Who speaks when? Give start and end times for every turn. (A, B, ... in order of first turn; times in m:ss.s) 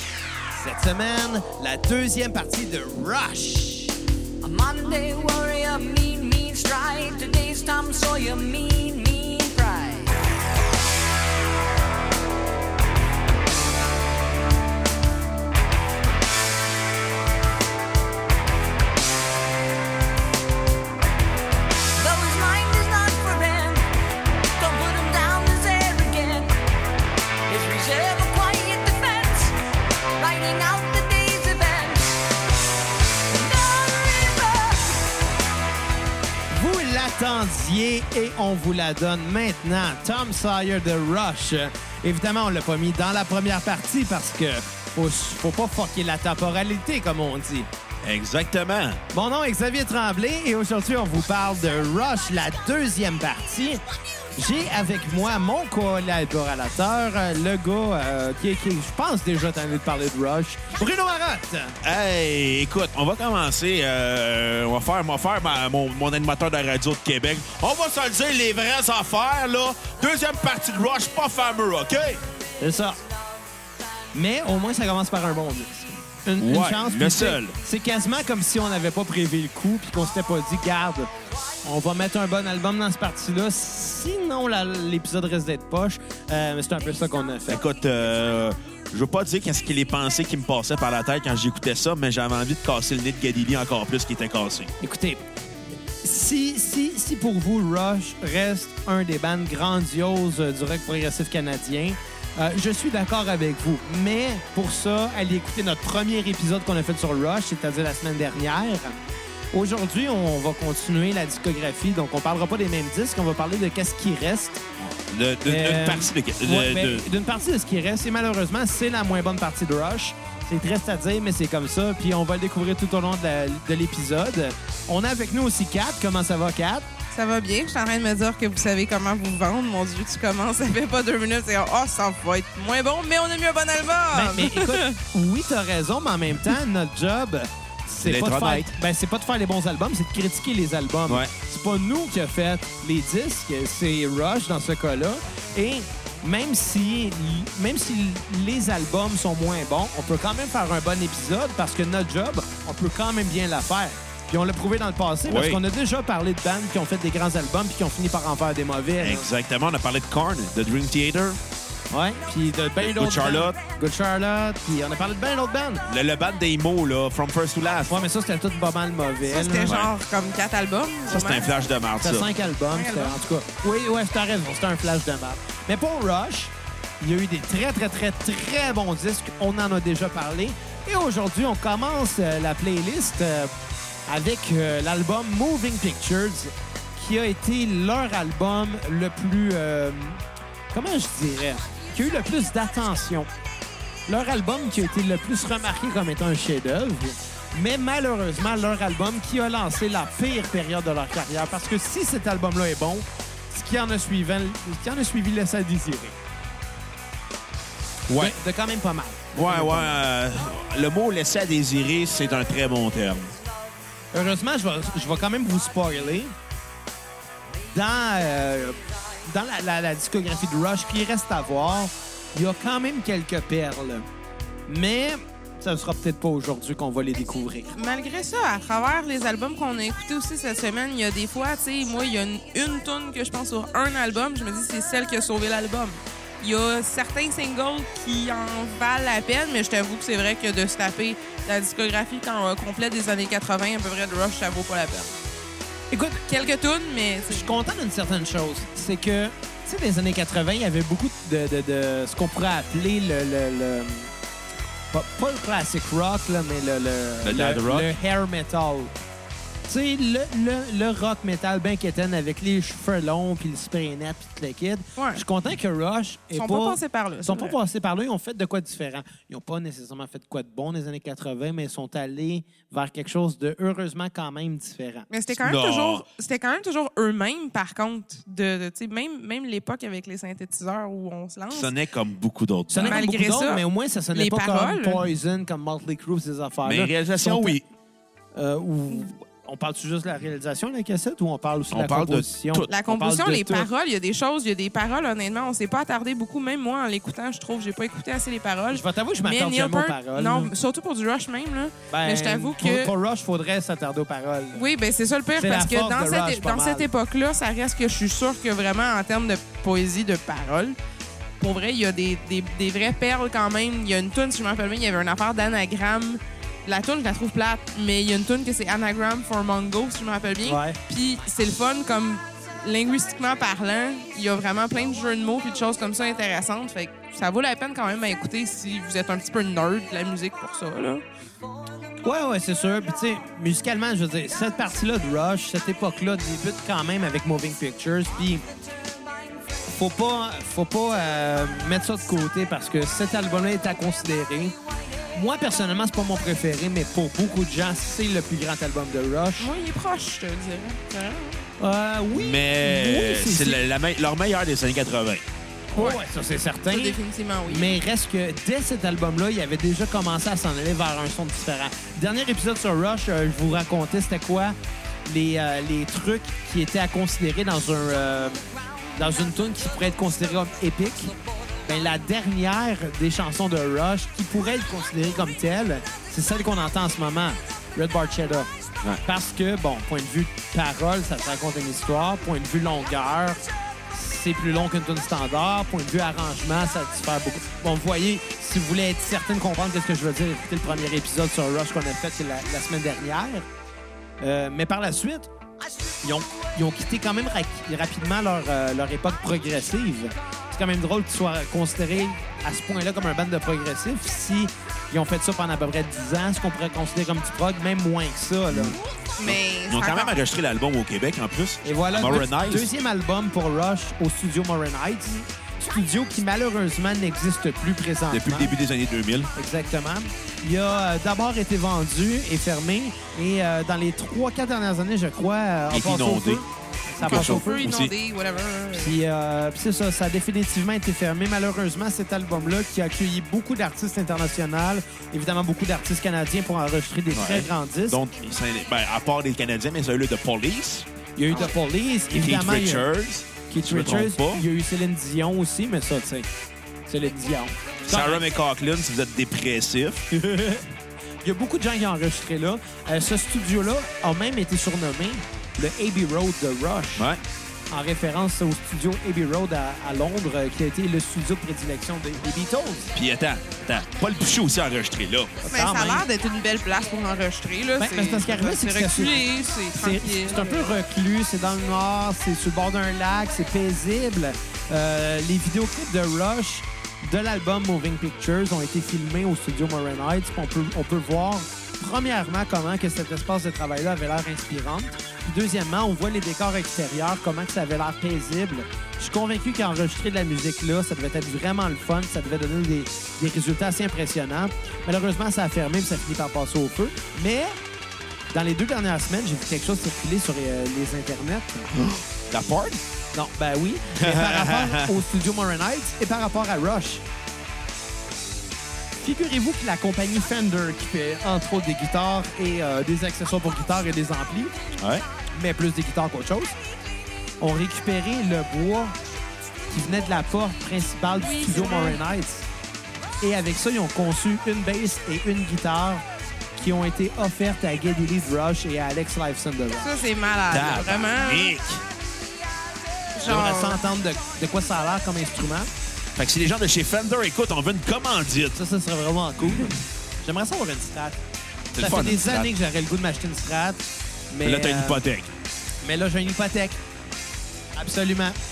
0:00.5-0:03.9 A
0:04.4-0:10.1 B
0:22.0-0:23.9 B
0:24.6-0:26.6 B
0:27.5-0:29.6 B
0:30.2-0:32.2 B
0:33.3-0:35.0 B
0:36.5-0:47.7 A
0:48.0-0:49.0 C
0:49.1-0:53.8 A
0:54.4-1:01.8 A
1:01.8-1:12.2 C
1:12.6-1:13.0 A
1:14.1-1:21.1 A
1:16.4-1:17.6 C
1:21.6-1:27.6 A
1:27.5-1:34.7 C
1:34.8-1:35.2 A
1:36.0-1:49.0 A
1:49.5-1:54.6 A
1:54.8-1:57.0 C
1:55.4-2:06.9 A
2:07.1-2:15.0 D
2:14.1-2:39.3 A
2:18.0-2:18.7 C
2:35.3-2:35.6 C
2:39.0-2:41.4 C
2:41.9-2:45.8 A
2:42.8-2:43.6 C
2:45.9-2:48.1 C
2:47.9-2:49.8 A
2:49.3-2:51.6 D
2:49.6-2:49.9 C
2:51.1-2:52.3 C
2:52.0-3:03.5 A
2:52.7-2:53.2 D
3:04.1-3:13.3 A
3:14.1-3:26.1 A
3:28.1-3:28.4 C
3:28.1-3:30.0 A
3:29.3-3:33.4 C
3:34.1-3:36.3 A
3:37.7-3:44.0 A
3:44.7-3:47.7 A
3:47.7-4:05.1 D
4:05.9-4:06.2 A
4:06.3-4:07.6 D
4:07.3-4:14.1 A
4:14.9-4:18.9 A
4:17.2-4:17.9 C
4:19.7-4:35.1 A
4:25.0-4:25.2 D
4:26.3-4:27.6 D
4:35.1-4:41.7 D
4:35.4-4:36.0 C
4:41.5-4:43.0 C
4:42.7-4:47.6 A
4:42.8-4:45.0 D
4:46.6-4:47.6 C
4:48.3-4:53.7 A
4:51.7-4:52.7 C
4:52.7-5:02.9 D
4:58.7-5:00.5 A
5:01.9-5:04.6 A
5:04.5-5:10.8 D
5:05.4-5:06.8 A
5:11.4-5:31.0 D
5:20.4-5:20.8 A
5:32.0-5:38.4 A
5:39.7-5:44.5 A
5:45.1-5:49.5 A
5:49.4-5:51.4 D
5:51.6-5:53.6 A
5:52.1-5:55.2 C
5:55.7-6:04.5 A
5:55.8-5:56.0 D
5:56.6-5:57.8 D
6:05.0-6:08.4 A
6:09.0-6:11.1 A
6:11.6-6:18.5 A
6:19.0-6:33.4 A
6:34.2-6:35.3 A
6:36.0-6:48.8 A
6:48.5-6:52.7 C
6:49.0-6:50.2 D
6:51.6-6:58.5 A
6:58.1-6:59.3 C
6:59.4-7:07.6 A
7:05.7-7:06.4 C
7:07.0-7:08.9 D
7:07.0-7:07.9 C
7:08.7-7:18.0 A
7:17.1-7:20.9 C
7:21.2-7:22.9 A
7:22.1-7:24.4 C
7:23.5-7:26.3 A
7:26.9-7:28.2 A
7:27.9-7:30.0 C
7:30.1-7:30.6 A
7:31.2-7:37.1 A
7:37.7-7:42.9 A
7:42.9-7:45.4 C
7:45.4-7:46.0 A
7:45.5-7:50.7 D
7:47.8-8:17.6 A
8:18.3-8:21.7 A
8:21.7-8:22.8 C
8:23.1-8:27.0 A
8:24.0-8:24.9 C
8:29.0-8:34.5 A
8:34.8-8:35.0 C
8:35.3-8:36.5 A
8:37.4-8:38.9 A
8:39.7-8:42.4 A
8:41.2-8:42.0 D
8:43.2-8:46.0 A
8:46.5-8:49.9 A
8:49.8-8:51.6 D
8:50.5-8:51.8 C
8:53.1-8:53.8 D
8:53.2-8:55.7 A
8:56.2-8:58.6 C
8:58.5-9:01.2 A
9:01.7-9:02.5 C
9:01.8-9:05.0 A
9:04.4-9:05.3 C
9:05.8-9:06.8 A
9:07.8-9:08.4 A